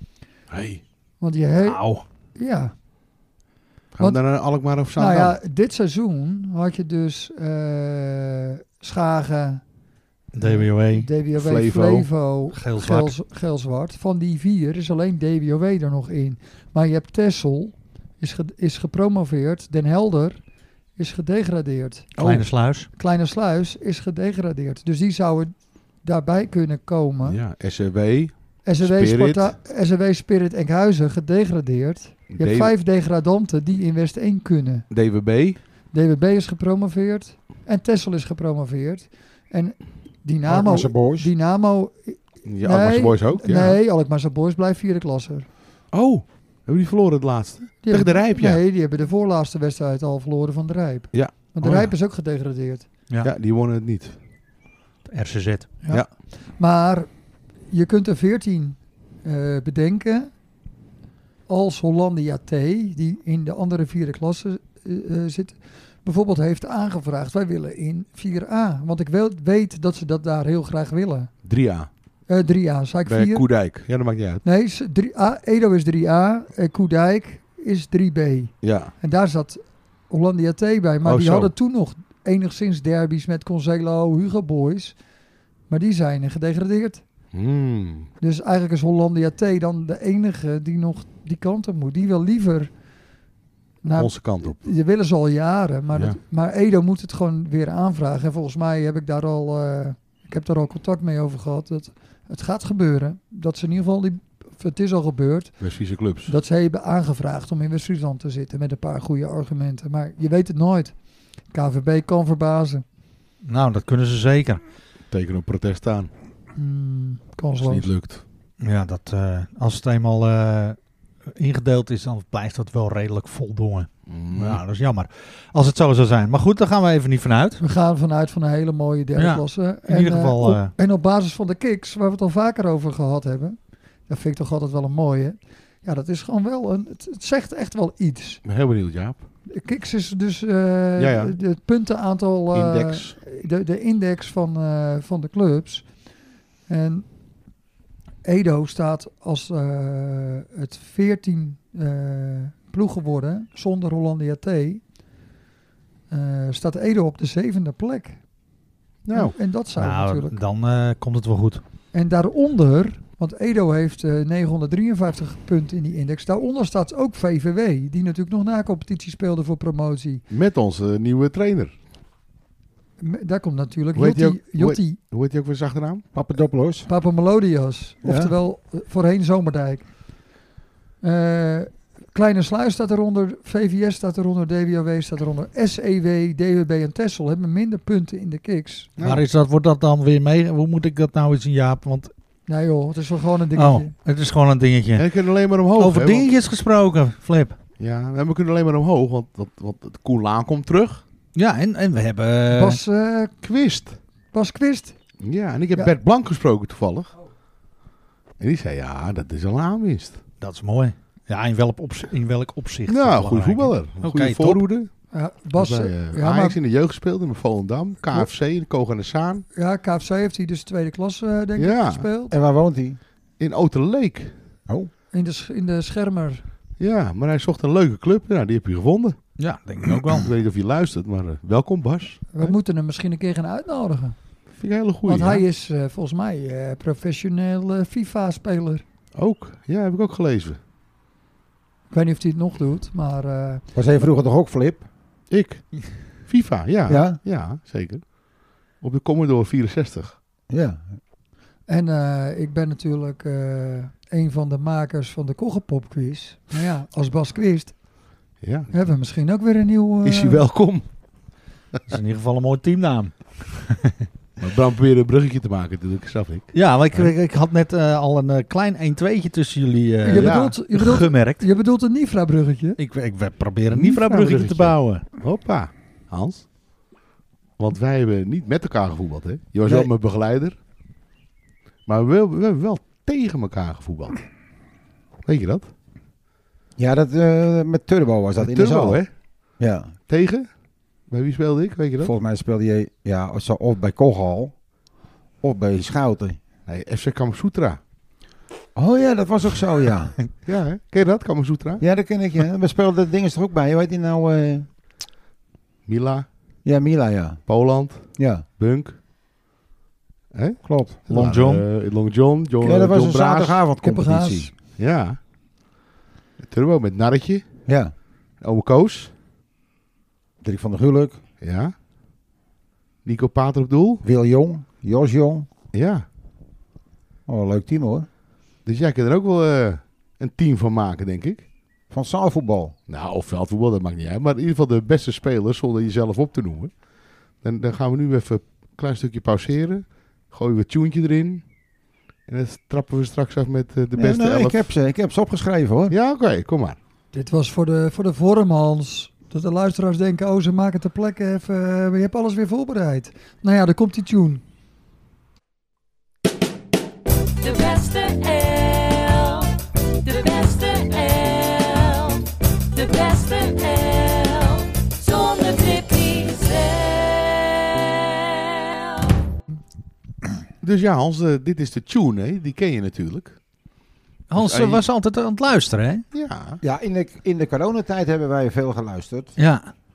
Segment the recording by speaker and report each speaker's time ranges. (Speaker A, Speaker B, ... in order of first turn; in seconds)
Speaker A: 0.5-0.8, 3.9-5.4, 11.3-12.1, 22.2-22.5, 27.2-29.6, 32.3-32.8, 34.9-35.6, 42.5-43.8, 45.9-48.6, 51.1-51.9, 53.2-54.2, 71.4-71.9, 73.1-74.4, 78.6-78.9, 81.0-81.5, 87.3-88.1, 94.0-94.6, 95.9-96.2, 105.6-106.3, 115.1-116.1, 117.6-118.2, 124.1-124.6, 138.4-139.2, 141.0-141.4, 142.5-143.2, 159.1-159.3, 170.3-171.8, 173.9-176.1, 189.0-189.2, 195.0-196.3, 197.8-201.0, 203.4-204.0, 205.2-207.1, 208.4-210.2, 212.9-214.9, 215.6-219.4, 221.6-222.1, 223.4-224.3, 226.8-229.2, 229.9-232.6, 234.6-235.4, 239.2-240.6, 245.3-245.7, 246.3-248.2, 248.8-250.2, 258.4-258.7, 260.0-260.9, 264.4-267.1, 270.1-270.6, 273.7-276.5, 277.6-280.6, 281.9-284.3, 285.2-285.7, 288.4-289.1, 290.1-290.5, 291.1-292.1, 296.7-297.8, 300.4-301.8, 305.9-306.3, 307.5-309.0, 310.3-313.6, 314.8-315.2, 316.4-317.5, 318.4-319.1, 321.4-321.7, 323.1-324.0, 325.7-326.1, 328.6-331.4, 332.9-336.7, 337.4-341.4, 342.3-344.7, 345.9-346.8, 370.6-373.4, 374.3-374.8, 376.1-376.6
Speaker B: 1.2-2.7, 5.0-9.6, 10.4-20.4, 21.0-22.1, 23.0-27.4, 28.6-34.9, 35.9-45.5, 47.8-52.9, 55.8-57.1, 57.7-60.3, 61.5-71.3, 72.3-73.7, 74.4-85.0, 85.7-87.0, 88.2-92.7, 93.8-105.6, 106.3-110.9, 111.5-112.8, 116.5-117.9, 127.6-138.4, 139.5-145.9, 146.7-147.1, 148.2-154.8, 156.1-158.2, 159.1-160.4, 161.9-170.2, 173.0-175.0, 176.9-179.9, 181.0-188.9, 192.5-193.9, 202.5-203.3, 204.3-205.0, 215.1-216.6, 219.6-222.3, 225.1-226.4, 232.3-234.2, 235.1-238.8, 241.9-243.6, 251.7-257.8, 258.7-260.4, 270.0-272.8, 313.8-314.5, 347.1-354.4
Speaker C: 1.6-2.0, 10.3-11.1, 12.5-13.1, 22.2-22.9, 55.1-55.8, 113.5-114.6, 118.6-120.8, 121.3-127.6, 129.2-130.7, 159.8-161.6, 189.0-192.1, 193.6-195.1, 195.7-197.6, 201.3-202.8, 210.4-214.6, 229.4-230.3, 261.9-264.1, 266.5-271.4, 272.8-275.0, 311.1-311.6, 374.3-376.1, 379.4-379.7
Speaker D: 40.5-41.3, 176.1-176.9, 178.0-178.3, 222.3-223.0, 243.8-244.9, 246.9-247.2, 250.5-250.8, 279.6-279.9, 286.8-289.0, 289.6-289.9, 292.0-294.6, 295.4-296.4, 298.8-300.2, 301.8-304.7, 306.6-307.4, 308.1-308.4, 310.6-311.0, 312.6-314.5, 317.7-317.9, 320.4-321.2, 324.0-325.5, 327.3-328.1, 331.9-332.8, 343.9-345.9, 376.6-379.4
Speaker E: 357.4-369.2